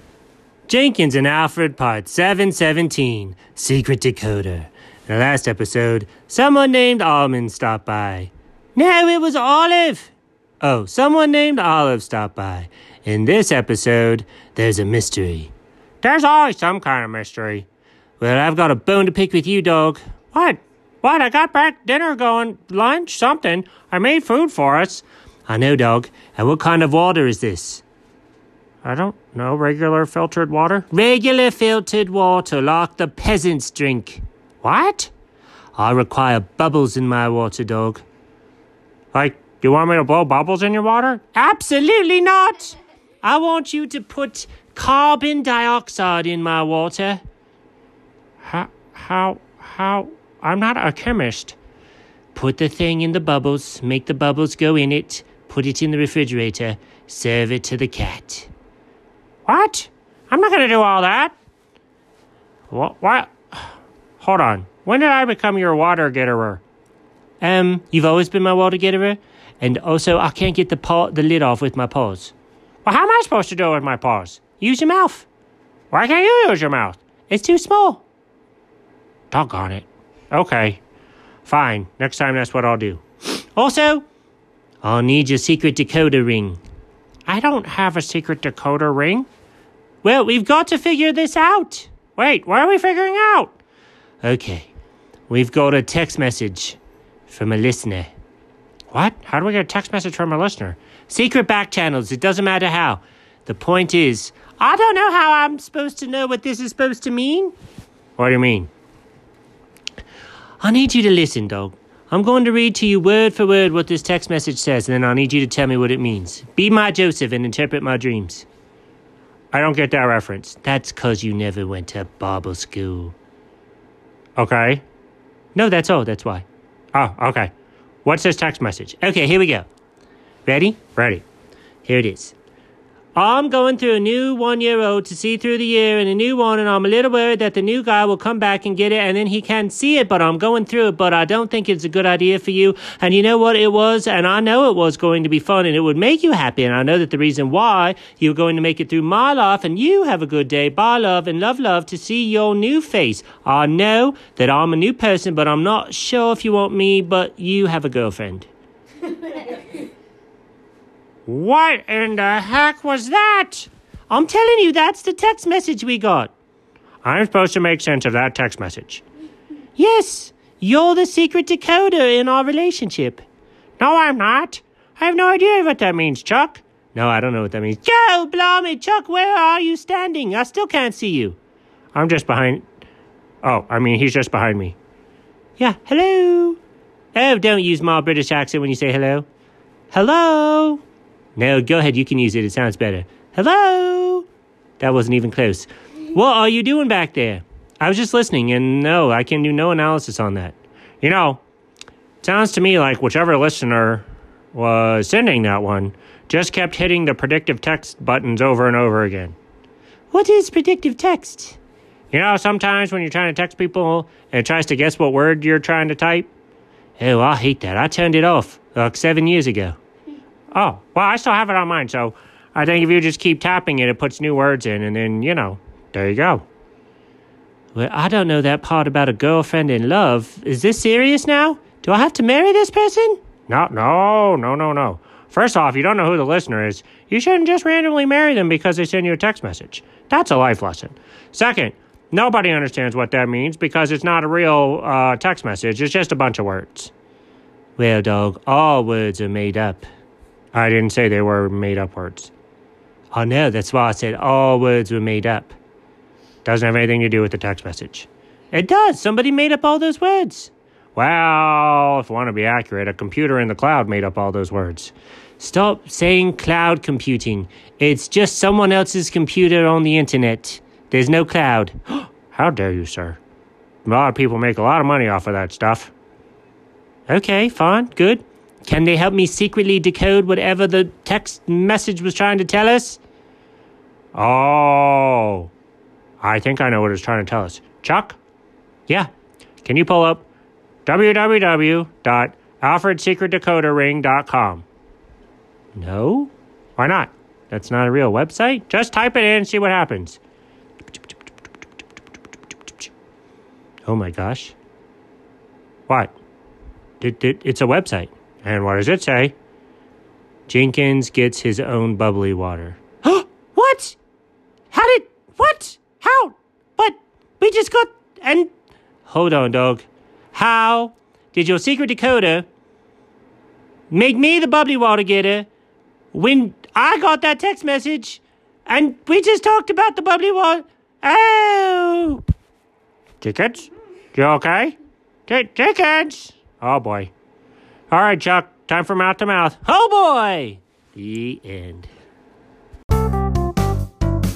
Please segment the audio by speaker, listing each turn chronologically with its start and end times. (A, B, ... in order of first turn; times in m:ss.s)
0:00.7-0:17.7 A
0:18.2-0:27.8 A
0:28.8-0:35.1 A
0:35.8-0:38.0 A
0:39.1-0:47.2 A
0:48.4-0:51.6 A
0:52.3-0:58.5 A
0:59.5-1:01.4 A
1:02.7-1:06.6 A
1:07.4-1:15.3 A
1:15.9-1:18.0 A
1:19.3-1:20.8 A
1:21.4-1:24.0 A
1:24.8-1:26.6 A
1:27.3-1:29.3 A
1:30.0-1:33.6 A
1:34.2-1:34.7 A
1:35.3-1:38.1 A
1:38.9-1:47.5 A
1:48.2-1:48.7 A
1:50.6-1:58.5 A
1:59.5-2:03.2 A
2:04.4-2:04.8 A
2:05.6-2:07.5 A
2:08.0-2:09.7 A
2:10.5-2:11.2 A
2:11.8-2:12.4 A
2:13.2-2:38.5 A
2:41.3-2:46.3 A
2:47.0-2:49.0 A
2:49.8-2:53.2 A
2:53.8-3:01.4 A
3:01.9-3:02.7 A
3:03.4-3:04.8 A
3:05.6-3:06.6 A
3:07.1-3:09.3 A
3:09.9-3:10.8 A
3:11.4-3:14.3 A
3:14.8-3:21.4 A
3:22.2-3:29.4 A
3:30.1-3:31.6 A
3:32.1-3:36.3 A
3:37.0-3:39.8 A
3:40.5-3:46.4 A
3:47.7-4:06.9 A
4:07.8-4:09.9 A
4:10.5-4:12.3 A
4:13.1-4:15.6 A
4:16.4-4:33.2 A
4:33.8-4:35.9 A
4:37.1-4:43.0 A
4:44.1-4:45.5 A
4:46.2-4:48.2 A
4:49.6-4:50.3 A
4:50.9-4:54.7 A
4:55.8-5:00.2 A
5:03.8-5:04.6 A
5:07.0-5:09.4 A
5:10.5-5:14.0 A
5:14.7-5:18.5 A
5:19.1-5:22.5 A
5:23.9-5:25.5 A
5:26.1-5:32.2 A
5:33.2-5:34.8 A
5:35.3-5:37.1 A
5:37.9-5:41.9 A